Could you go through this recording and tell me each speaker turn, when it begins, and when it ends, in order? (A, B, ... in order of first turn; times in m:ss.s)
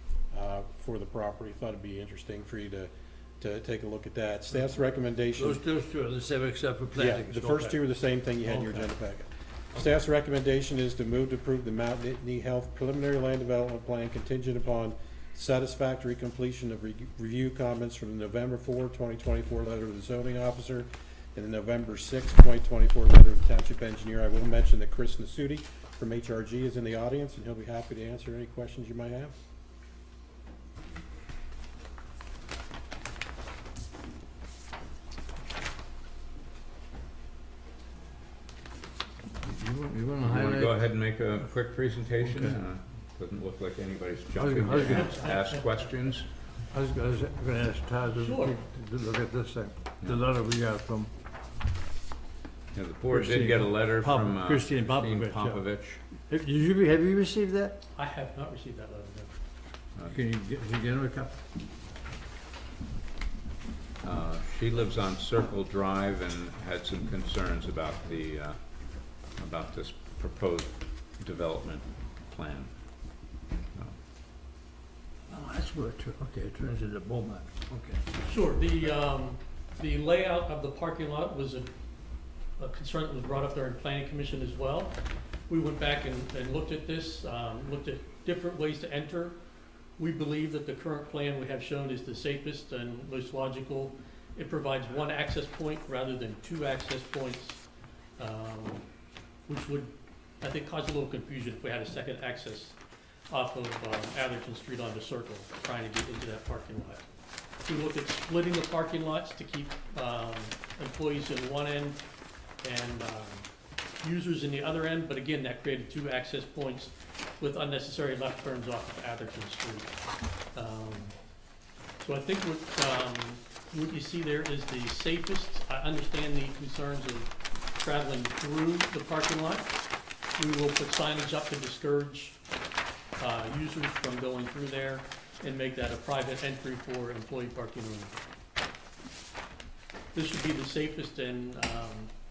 0:00.3-0:02.9 A
0:03.4-0:05.6 A
0:05.4-0:07.8 B
0:07.0-0:29.3 A
0:08.4-0:08.9 B
0:39.4-0:40.8 B
0:40.2-0:46.3 C
0:42.2-0:42.6 B
0:44.3-0:45.1 B
0:44.9-0:45.6 D
0:46.7-0:51.1 B
0:48.1-0:48.6 D
0:52.7-0:56.0 C
0:53.1-0:55.6 B
0:56.2-0:57.8 B
0:58.0-0:59.3 D
1:00.1-1:01.4 B
1:04.0-1:08.6 C
1:09.4-1:12.7 C
1:15.3-1:18.0 B
1:18.2-1:21.7 D
1:22.6-1:25.0 D
1:25.5-1:29.4 D
1:30.0-1:37.6 D
1:38.2-1:38.8 D
1:39.5-1:42.8 D
1:43.3-1:47.0 D
1:47.6-1:52.0 D
1:52.6-1:53.5 D
1:54.0-1:59.9 D
2:00.5-2:01.1 D
2:02.0-2:09.7 D
2:10.4-2:12.4 D
2:13.2-2:18.1 D
2:20.1-2:22.1 D